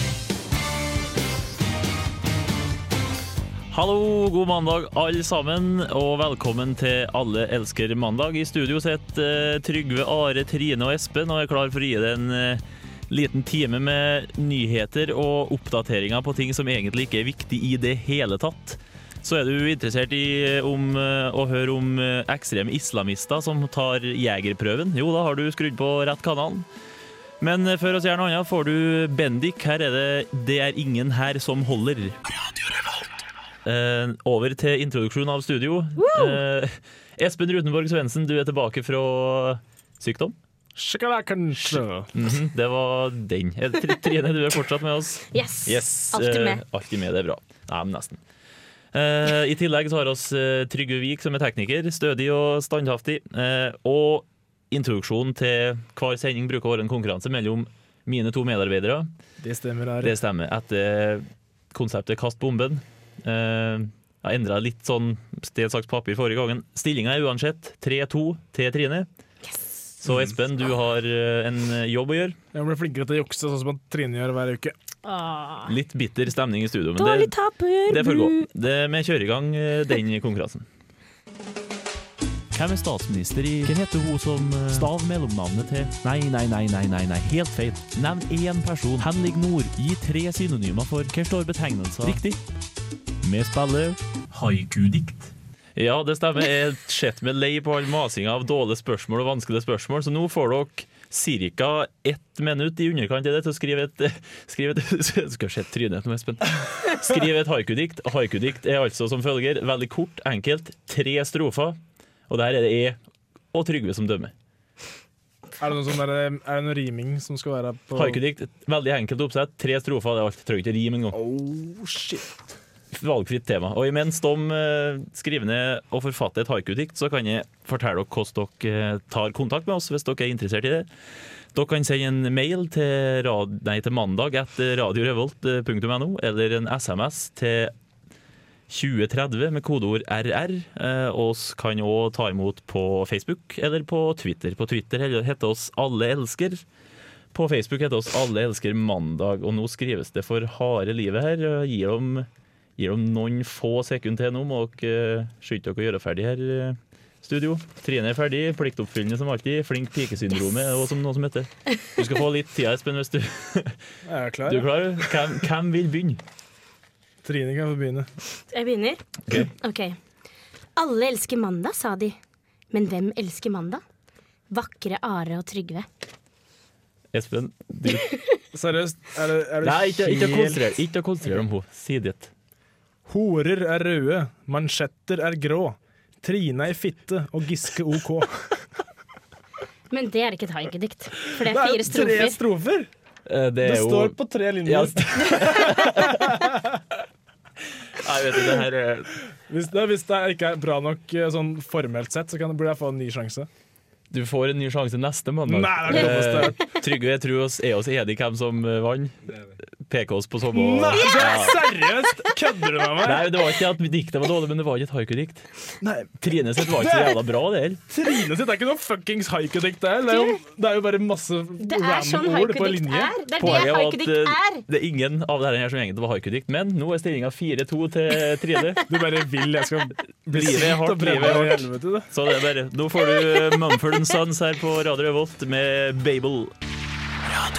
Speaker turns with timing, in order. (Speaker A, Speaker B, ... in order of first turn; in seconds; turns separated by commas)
Speaker A: 3.7-26.7, Speaker A: 27.4-32.2, Speaker A: 33.6-40.3, Speaker B: 36.0-36.4, Speaker C: 40.8-42.1, Speaker A: 41.7-48.2, Speaker B: 45.3-46.6, Speaker A: 48.9-59.1, Speaker C: 59.4-60.2, Speaker A: 60.0-69.1, Speaker A: 70.0-72.4, Speaker C: 72.5-74.8, Speaker B: 75.0-75.8, Speaker A: 75.7-77.3, Speaker B: 77.0-78.5, Speaker A: 77.9-80.7, Speaker A: 82.5-92.4, Speaker A: 93.2-111.8, Speaker A: 112.3-113.0, Speaker A: 113.5-114.3, Speaker C: 115.6-118.2, Speaker A: 117.9-121.2, Speaker C: 121.1-122.4, Speaker A: 122.9-130.9, Speaker A: 131.5-137.7, Speaker A: 138.7-146.6, Speaker A: 147.3-152.3, Speaker A: 152.8-163.8, Speaker C: 164.1-165.0, Speaker A: 164.5-166.2, Speaker C: 167.2-168.1, Speaker B: 168.5-170.0, Speaker B: 170.8-172.2, Speaker B: 172.7-173.8, Speaker B: 174.5-175.9, Speaker A: 177.1-178.1, Speaker C: 178.5-180.6, Speaker A: 179.6-182.3, Speaker C: 183.1-188.6, Speaker B: 189.9-192.4, Speaker C: 191.4-192.9, Speaker A: 193.2-196.4, Speaker C: 193.6-196.8, Speaker A: 197.9-199.2, Speaker C: 199.5-203.5, Speaker A: 204.1-209.2, Speaker C: 205.4-206.6, Speaker A: 209.8-211.6, Speaker C: 210.5-213.5, Speaker B: 211.0-211.5, Speaker A: 213.0-215.5, Speaker C: 215.8-217.3, Speaker A: 216.2-217.8, Speaker C: 217.9-223.4, Speaker B: 220.1-220.4, Speaker B: 221.6-224.6, Speaker A: 223.4-228.9, Speaker C: 228.9-232.1, Speaker A: 230.3-236.5